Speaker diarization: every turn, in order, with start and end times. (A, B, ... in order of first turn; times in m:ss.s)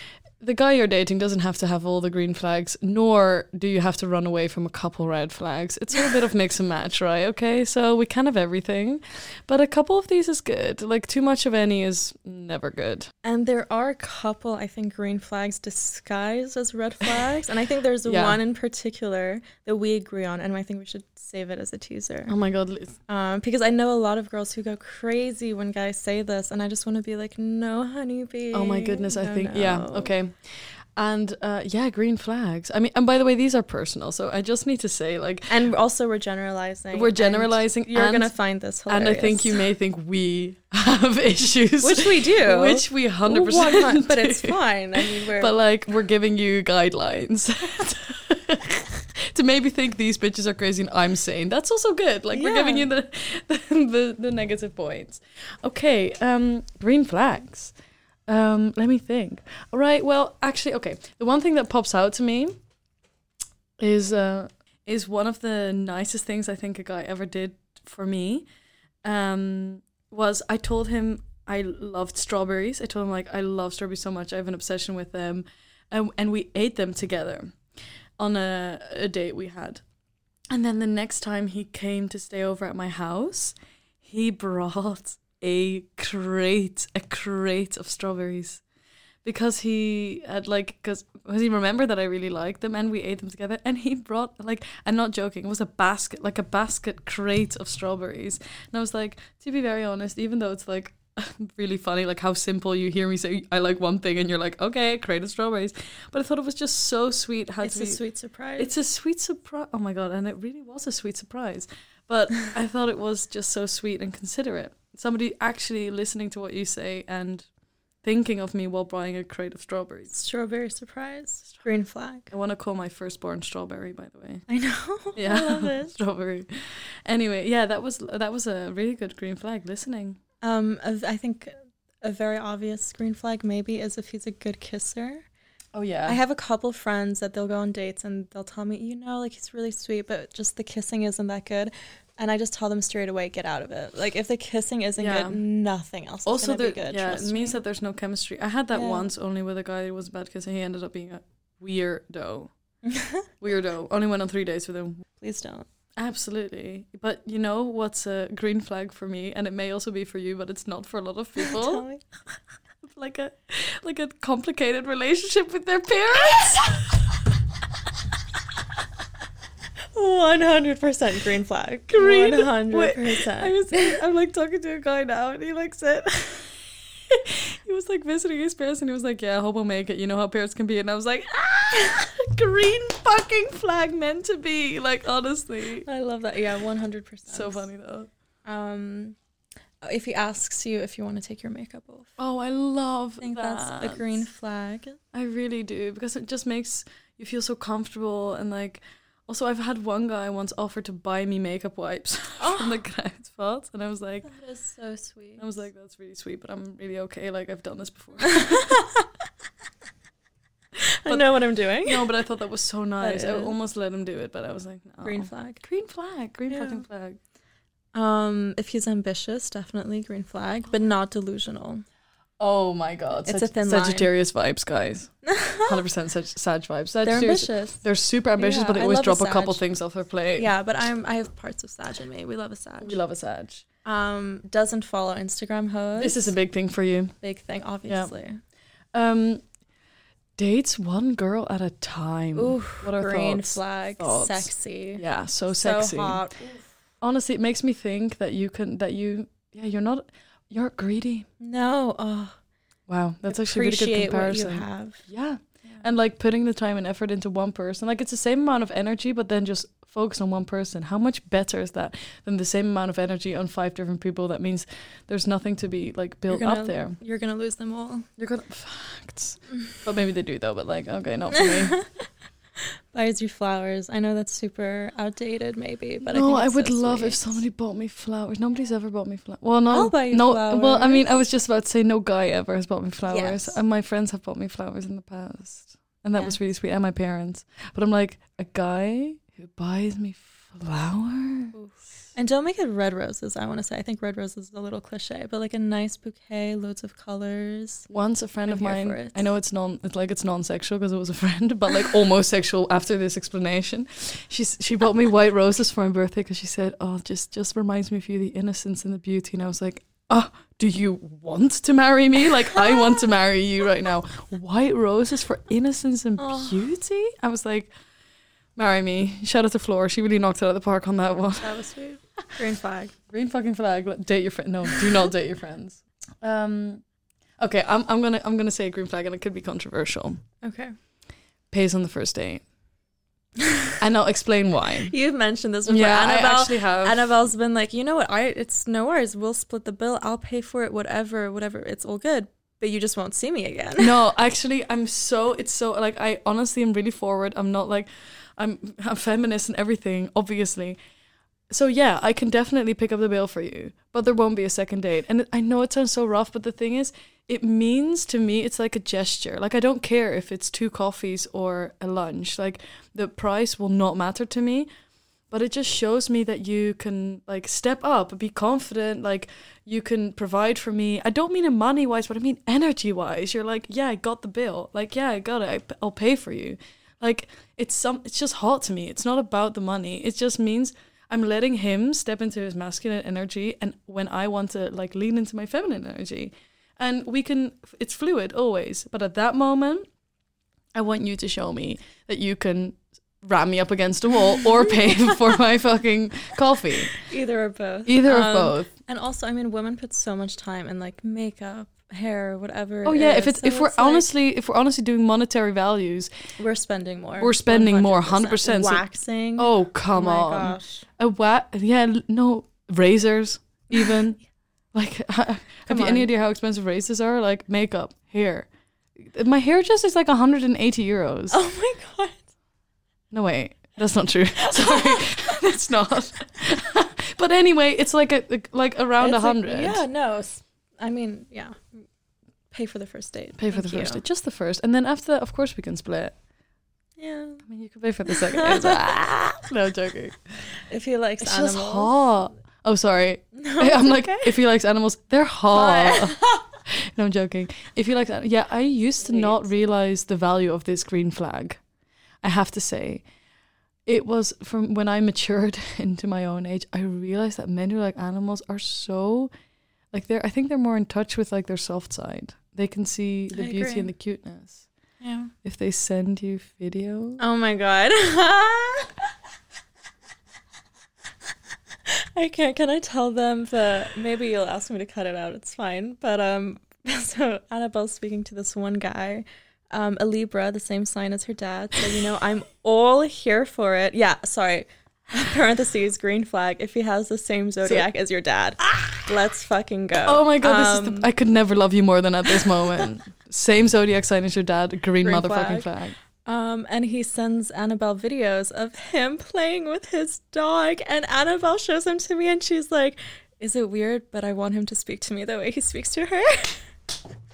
0:00.4-0:13.1 A
0:13.2-0:22.4 B
0:18.0-0:18.4 A
0:22.3-0:23.0 A
0:23.1-0:30.1 B
0:28.5-0:35.5 A
0:35.5-0:39.6 B
0:36.9-0:38.3 A
0:38.9-0:57.7 A
0:41.8-0:45.5 B
0:52.3-0:52.9 B
0:58.3-1:02.5 A
1:03.8-1:08.4 A
1:09.0-1:17.5 A
1:18.2-1:19.8 A
1:20.5-1:28.6 A
1:29.2-1:48.0 A
1:47.6-1:48.7 B
1:48.6-1:57.4 A
1:58.0-2:00.1 A
2:00.1-2:02.3 B
2:02.3-2:04.4 A
2:04.5-2:05.9 B
2:05.2-2:10.2 A
2:10.4-2:15.2 B
2:15.7-2:16.2 A
2:16.1-2:27.6 B
2:25.0-2:25.4 A
2:26.2-2:32.5 A
2:28.7-2:29.1 B
2:32.8-2:33.3 B
2:33.4-2:35.0 A
2:35.2-2:35.6 B
2:36.0-2:41.8 A
2:41.4-2:42.0 B
2:42.8-2:47.0 A
2:49.9-2:54.0 B
2:51.9-3:05.8 A
3:05.8-3:07.7 B
3:07.3-3:08.1 A
3:08.4-3:09.2 B
3:09.8-3:12.1 B
3:12.2-3:14.2 A
3:13.2-3:15.0 B
3:15.1-3:24.3 A
3:22.4-3:22.8 B
3:24.2-3:25.6 B
3:25.4-3:28.8 A
3:28.2-3:29.1 B
3:30.8-3:32.1 B
3:31.8-3:37.2 A
3:33.0-3:33.5 B
3:35.0-3:35.6 B
3:36.5-3:36.8 B
3:37.9-3:41.8 B
3:42.4-3:45.1 A
3:43.2-3:44.1 B
3:45.2-3:45.8 B
3:45.6-3:50.5 A
3:47.0-3:47.8 B
3:48.4-3:49.6 B
3:50.4-3:53.0 B
3:52.8-3:53.6 A
3:53.8-3:56.3 B
3:56.0-3:57.1 A
3:57.2-3:58.4 B
3:57.8-3:58.1 A
3:58.9-3:59.4 A
4:00.4-4:06.2 A
4:02.3-4:06.6 B
4:07.0-4:11.3 A
4:11.4-4:12.4 B
4:12.9-4:27.0 A
4:13.3-4:15.0 B
4:26.3-4:28.1 B
4:28.2-4:31.8 A
4:31.3-4:31.8 B
4:32.9-4:37.4 B
4:36.0-4:51.5 A
4:39.7-4:41.1 B
4:43.0-4:43.6 B
4:51.5-4:57.9 B
4:57.9-5:17.7 A
4:58.4-4:59.2 B
5:16.2-5:16.6 B
5:18.6-5:21.6 A
5:21.4-5:22.9 B
5:23.1-5:26.8 A
5:27.4-5:30.2 A
5:30.4-5:30.7 B
5:31.5-5:32.4 A
5:33.4-5:33.7 B
5:33.8-5:34.9 A
5:34.8-5:44.0 B
5:35.7-5:37.1 A
5:43.8-5:50.8 A
5:51.5-6:04.7 A
6:05.3-6:29.9 A
6:30.7-6:37.0 A
6:37.0-6:44.1 B
6:37.9-6:38.7 A
6:42.8-6:46.1 A
6:46.4-6:50.8 B
6:47.2-6:48.8 A
6:49.4-6:54.2 A
6:53.7-6:54.0 B
6:54.7-7:01.4 A
6:55.7-6:56.1 B
7:01.3-7:02.2 B
7:03.1-7:09.8 A
7:04.4-7:05.4 B
7:09.0-7:11.8 B
7:12.5-7:14.0 B
7:13.4-7:16.1 A
7:17.0-7:17.4 B
7:17.4-7:20.2 A
7:18.1-7:19.0 B
7:20.7-7:22.1 B
7:21.2-7:31.6 A
7:23.3-7:24.3 B
7:25.5-7:26.5 B
7:29.0-7:29.4 B
7:32.2-7:33.0 A
7:33.8-7:39.3 A
7:39.9-7:44.6 A
7:43.3-7:43.9 B
7:45.0-7:45.3 B
7:45.4-7:47.2 A
7:47.2-7:48.9 B
7:51.9-8:11.1 B
8:08.6-8:09.0 A
8:10.0-8:16.0 A
8:15.0-8:15.7 B
8:16.2-8:26.6 B